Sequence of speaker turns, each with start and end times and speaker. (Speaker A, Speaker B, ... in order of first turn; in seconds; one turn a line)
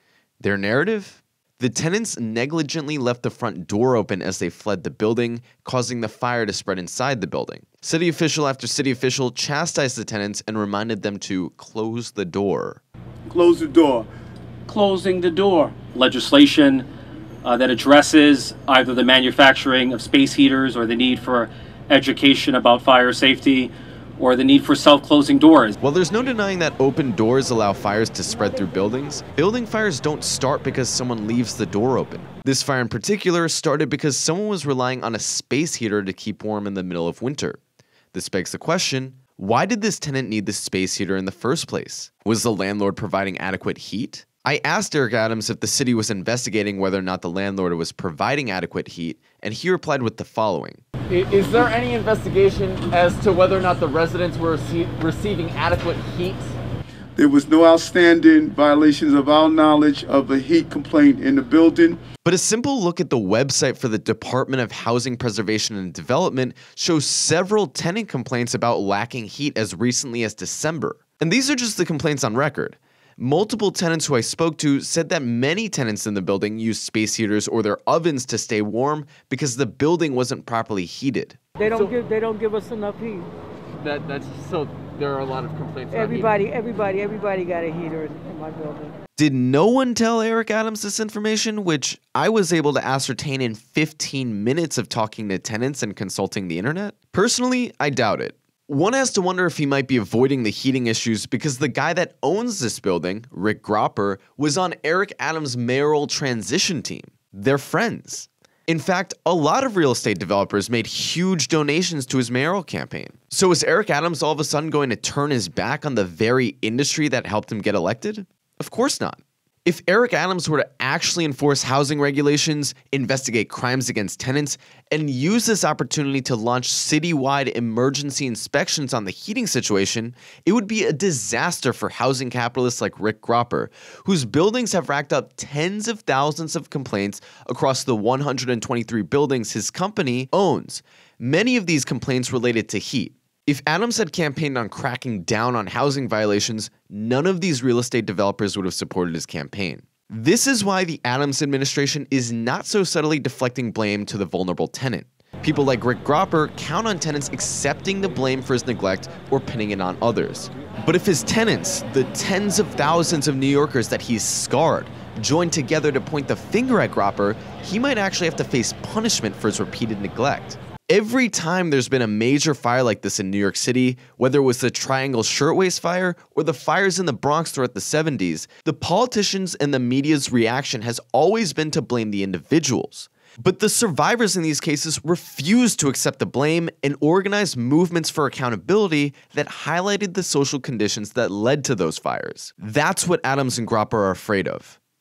Speaker A: 0.4-12.8
Speaker B: 13.3-14.1
Speaker B: 14.7-15.7
Speaker C: 15.9-16.9
Speaker C: 17.4-25.8
Speaker A: 25.8-37.6
Speaker A: 38.1-50.8
Speaker D: 51.1-56.5
Speaker B: 57.2-62.0
Speaker A: 62.2-81.4
Speaker E: 81.6-83.3
Speaker D: 81.6-81.9
Speaker D: 83.8-86.4
Speaker E: 85.9-89.0
Speaker A: 89.2-194.8